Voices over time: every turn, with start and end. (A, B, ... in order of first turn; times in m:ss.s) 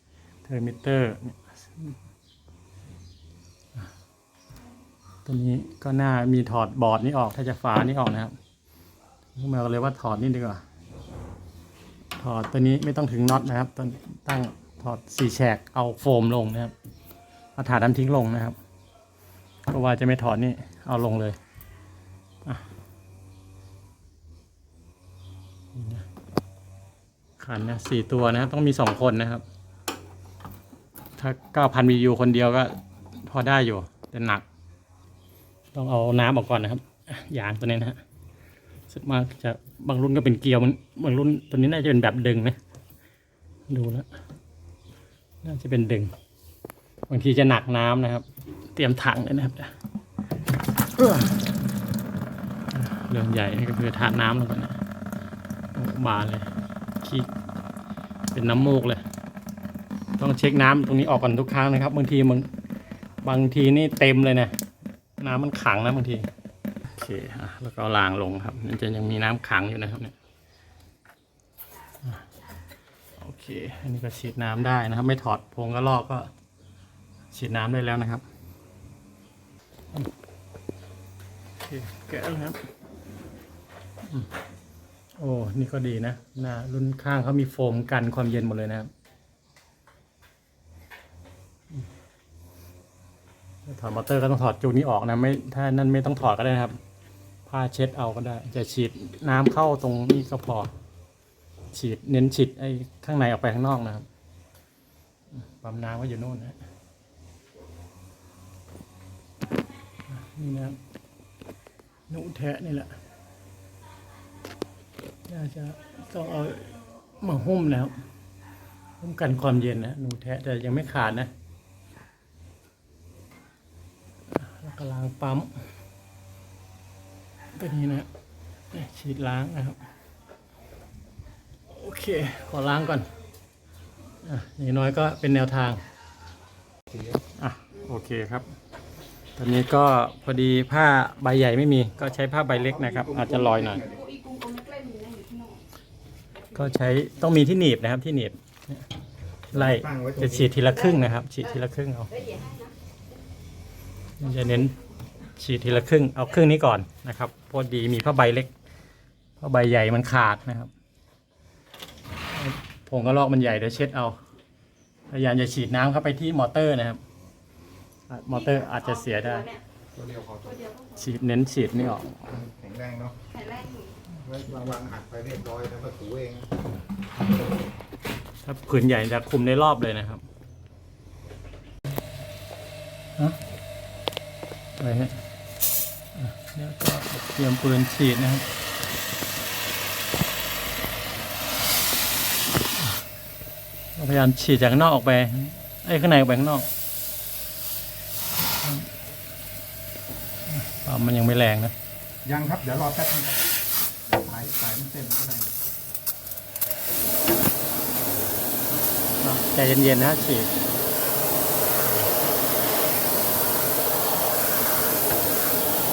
0:00.4-0:02.0 A
0:05.2-0:08.3 A
0:09.3-0:10.6 A
0:12.2-0:16.7 A
0:17.6-0:18.6 A
0:19.7-0:21.4 A
0:25.7-0:26.0 A
0:27.4-0:29.4 A
0:31.2-0:34.4 A
0:35.7-0:38.0 A
0:38.9-0:42.6 A
0:43.7-0:44.1 A
0:45.4-0:46.1 A
0:47.1-0:49.7 A
0:50.9-0:51.5 A
0:52.7-0:54.8 A
0:55.7-0:56.5 A
0:57.0-0:57.3 A
0:58.3-0:59.0 A
1:00.2-1:02.5 A
1:03.2-1:04.5 A
1:05.2-1:06.3 A
1:06.8-1:10.1 A
1:12.0-1:12.3 A
1:13.2-1:16.3 A
1:17.3-1:18.2 A
1:21.6-1:22.6 A
1:24.0-1:24.3 A
1:25.2-1:28.9 A
1:33.6-1:36.8 A
1:37.4-1:40.7 A
1:41.7-1:44.0 A
1:45.4-1:46.6 A
1:50.1-1:50.8 A
1:52.1-1:53.0 A
1:55.3-1:58.0 A
1:59.0-2:01.3 A
2:04.3-2:05.6 A
2:07.5-2:08.1 A
2:08.7-2:09.8 A
2:11.7-2:13.1 A
2:14.2-2:15.8 A
2:17.4-2:18.5 A
2:19.4-2:23.8 A
2:22.8-2:24.0 B
2:23.8-2:25.6 C
2:26.5-2:28.8 A
2:29.5-2:32.2 A
2:29.6-2:30.5 B
2:32.2-2:32.7 C
2:34.2-2:34.8 A
2:35.3-2:38.5 A
2:39.4-2:40.7 A
2:42.3-2:44.2 A
2:45.1-2:47.0 A
2:48.1-2:49.5 A
2:48.4-2:49.6 C
2:49.9-2:50.6 B
2:50.5-2:50.8 C
2:50.9-2:52.4 A
2:52.3-2:53.2 B
2:53.3-2:54.0 C
2:54.2-2:56.5 B
2:58.4-3:00.2 A
3:04.8-3:05.2 A
3:06.1-3:08.4 A
3:14.0-3:16.7 A
3:18.6-3:18.9 A
3:20.5-3:21.7 A
3:22.2-3:23.4 B
3:24.0-3:25.5 B
3:29.2-3:30.5 A